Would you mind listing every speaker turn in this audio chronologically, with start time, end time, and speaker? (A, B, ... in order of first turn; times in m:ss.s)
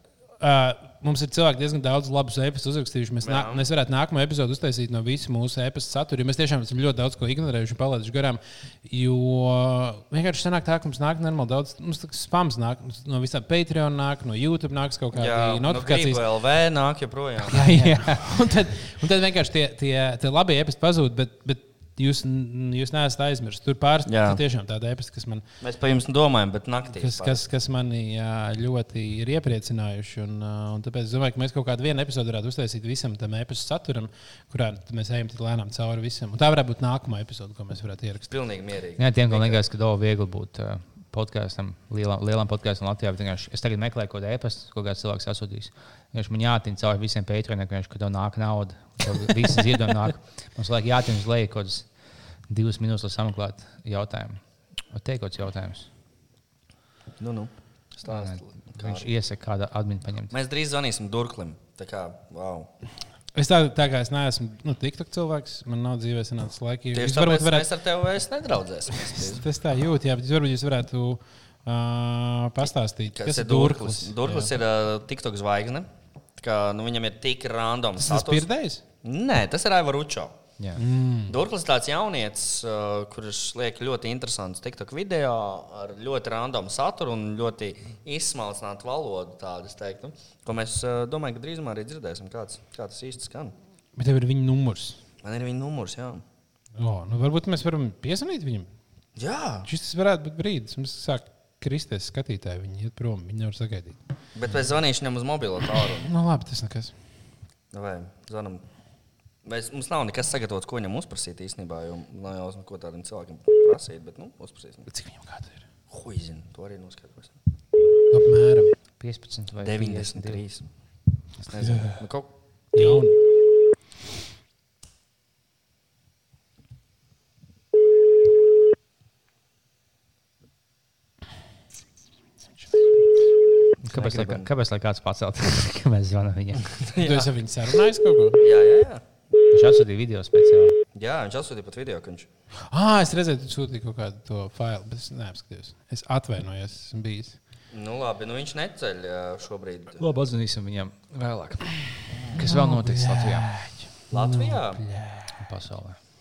0:00.4-0:16.2 A
0:03.2-0:03.6 B
0:15.1-0:17.6 B
0:17.5-0:25.4 A
0:17.6-0:18.3 C
0:24.0-0:24.4 B
0:25.6-0:27.4 B
0:26.9-0:38.3 A
0:38.3-0:39.6 B
0:39.0-0:51.9 C
0:52.5-0:55.9 C
0:57.2-0:59.1 B
0:58.0-1:00.3 C
1:00.3-1:02.7 B
1:03.3-1:07.7 A
1:06.9-1:09.4 B
1:09.1-1:14.5 A
1:13.1-1:18.5 B
1:18.0-1:18.8 A
1:19.0-1:20.3 B
1:20.8-1:21.4 A
1:21.3-1:33.5 B
1:34.0-1:35.0 A
1:35.2-1:36.2 B
1:36.8-1:38.7 A
1:39.2-1:39.7 B
1:39.6-1:44.0 A
1:44.3-1:46.1 B
1:46.0-1:46.9 A
1:47.7-1:48.6 B
1:49.4-1:54.9 B
1:54.9-1:55.6 A
1:55.9-1:57.4 B
1:58.1-1:58.7 A
1:59.0-2:00.4 C
1:59.6-2:00.6 B
2:01.5-2:03.0 B
2:01.6-2:02.0 A
2:02.7-2:03.2 A
2:12.6-2:12.9 A
2:13.8-2:16.7 C
2:13.9-2:14.5 B
2:16.7-2:17.3 B
2:17.0-2:18.4 A
2:18.4-2:19.0 B
2:19.5-2:20.8 C
2:20.9-2:22.3 B
2:22.7-2:27.4 A
2:27.7-2:30.0 B
2:30.0-2:31.8 C
2:32.1-2:32.4 B
2:32.3-2:33.5 C
2:32.3-2:35.4 A
2:34.1-2:34.8 B
2:35.4-2:36.0 C